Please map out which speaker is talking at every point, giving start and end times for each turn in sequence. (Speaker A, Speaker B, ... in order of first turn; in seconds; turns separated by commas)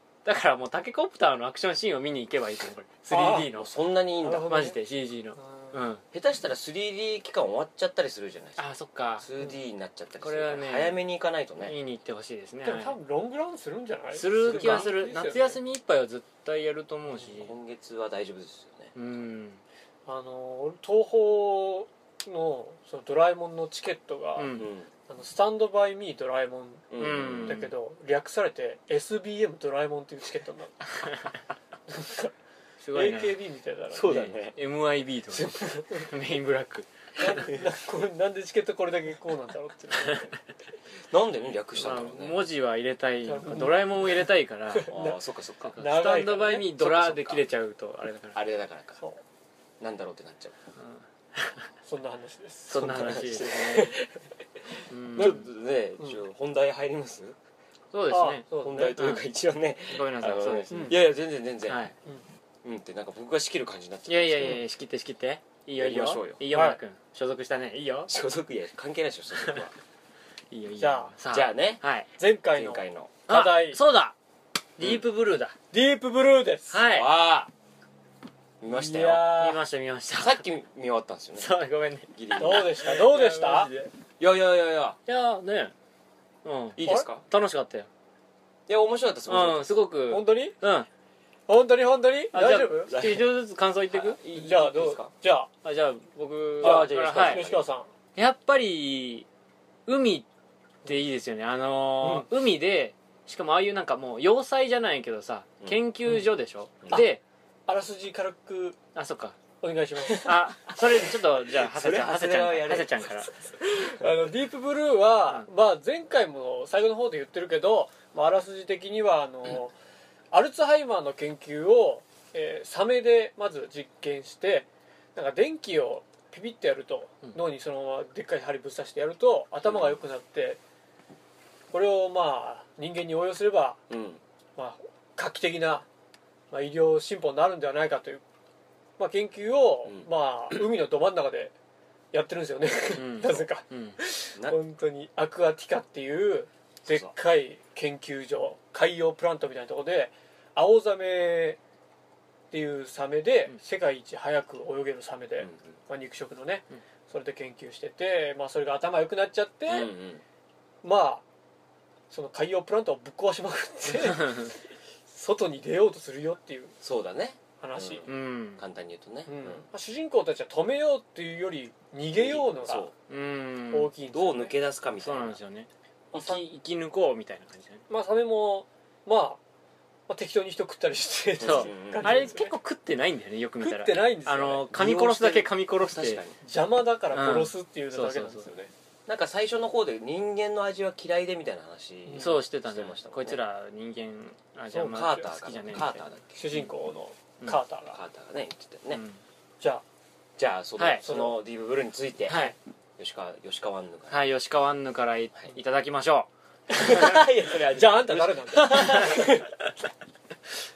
Speaker A: 0.2-3.7, Speaker B: 3.1-3.5, Speaker C: 3.5-4.5, Speaker B: 4.2-4.8, Speaker A: 4.5-6.0, Speaker B: 5.4-5.7, Speaker C: 6.1-8.7, Speaker A: 8.6-9.3, Speaker C: 9.2-11.8, Speaker A: 10.2-11.0, Speaker A: 11.6-13.0, Speaker B: 12.6-15.6, Speaker A: 14.1-17.5, Speaker C: 14.4-14.9, Speaker C: 17.2-18.9, Speaker A: 19.0-19.6, Speaker B: 20.1-24.5, Speaker A: 24.4-24.7, Speaker C: 24.6-24.9, Speaker B: 25.1-30.8, Speaker C: 26.9-27.7, Speaker A: 27.0-27.7, Speaker B: 31.9-32.3, Speaker A: 32.8-33.4, Speaker B: 32.9-34.3, Speaker C: 33.9-34.6, Speaker A: 34.0-36.9, Speaker B: 35.3-36.1, Speaker B: 37.2-40.4, Speaker C: 41.1-42.4, Speaker A: 41.8-44.9, Speaker B: 43.2-44.2, Speaker B: 44.8-45.2, Speaker C: 44.9-45.8, Speaker A: 45.7-48.4, Speaker B: 45.8-46.7, Speaker C: 46.7-47.5, Speaker C: 48.3-49.0, Speaker C: 49.8-50.6, Speaker A: 50.8-51.6, Speaker B: 51.9-53.9, Speaker A: 52.7-54.0, Speaker C: 52.7-54.1, Speaker C: 54.8-57.4, Speaker A: 54.9-55.5, Speaker A: 57.9-59.2, Speaker B: 58.1-59.0, Speaker C: 58.6-61.8, Speaker A: 59.9-61.0, Speaker B: 60.7-61.0, Speaker A: 61.7-61.9, Speaker C: 62.6-64.6, Speaker A: 64.1-68.1, Speaker C: 65.8-66.4, Speaker B: 66.5-66.8, Speaker C: 68.1-69.8, Speaker A: 70.5-72.1, Speaker B: 70.8-71.1, Speaker C: 71.3-71.8, Speaker B: 72.2-73.8, Speaker C: 72.5-73.2, Speaker A: 73.3-74.2, Speaker A: 74.8-75.6, Speaker B: 75.7-76.8, Speaker A: 76.7-77.1, Speaker C: 76.9-77.5, Speaker C: 78.6-79.3, Speaker B: 78.7-79.6, Speaker A: 79.2-80.4, Speaker C: 80.1-81.5, Speaker A: 81.4-83.9, Speaker C: 82.1-83.0, Speaker B: 82.4-83.7, Speaker C: 84.2-85.0, Speaker A: 85.1-85.7, Speaker A: 86.5-87.9, Speaker C: 86.8-87.2, Speaker C: 88.7-89.8, Speaker A: 89.3-90.9, Speaker B: 90.1-90.6, Speaker B: 91.5-92.9, Speaker A: 92.3-94.2, Speaker C: 92.9-93.3, Speaker C: 93.9-95.1, Speaker B: 94.3-95.5, Speaker A: 95.6-97.5, Speaker C: 96.6-97.6, Speaker B: 96.6-97.9, Speaker A: 98.2-99.3, Speaker A: 99.9-100.3, Speaker A: 100.9-107.2, Speaker B: 102.0-102.3, Speaker B: 107.7-108.8, Speaker A: 109.0-109.4, Speaker B: 109.6-110.3, Speaker A: 110.1-113.3, Speaker C: 110.7-114.1, Speaker B: 113.6-119.7, Speaker B: 120.3-130.6, Speaker C: 129.6-130.0, Speaker B: 131.7-133.8, Speaker C: 133.9-134.2, Speaker B: 134.6-135.9, Speaker B: 136.5-138.2, Speaker B: 139.0-141.5, Speaker B: 142.1-151.6, Speaker A: 143.0-144.0, Speaker C: 146.9-147.1, Speaker B: 152.5-159.9, Speaker C: 155.4-155.8, Speaker C: 159.7-160.2, Speaker B: 160.8-161.2, Speaker B: 162.1-166.8, Speaker C: 166.8-169.7, Speaker B: 167.6-168.1, Speaker A: 168.1-168.6, Speaker B: 169.3-172.9, Speaker C: 172.1-172.9, Speaker A: 173.1-173.9, Speaker B: 173.7-174.6, Speaker C: 174.1-175.4, Speaker A: 175.0-177.8, Speaker B: 176.1-176.4, Speaker B: 177.9-179.4, Speaker B: 180.1-182.6, Speaker C: 181.4-182.4, Speaker A: 181.4-186.2, Speaker B: 183.6-184.7, Speaker C: 184.7-186.4, Speaker B: 186.4-188.7, Speaker A: 187.1-188.5, Speaker C: 189.1-193.4, Speaker B: 192.1-192.4, Speaker A: 192.2-196.6, Speaker B: 194.7-195.2, Speaker C: 194.8-196.2, Speaker B: 196.3-198.0, Speaker C: 197.9-199.0, Speaker A: 198.9-199.2, Speaker C: 200.4-204.2, Speaker A: 200.8-201.0, Speaker B: 201.0-201.3, Speaker A: 202.3-202.6, Speaker A: 204.1-207.0, Speaker C: 206.7-209.5, Speaker B: 207.7-209.3, Speaker A: 208.7-209.3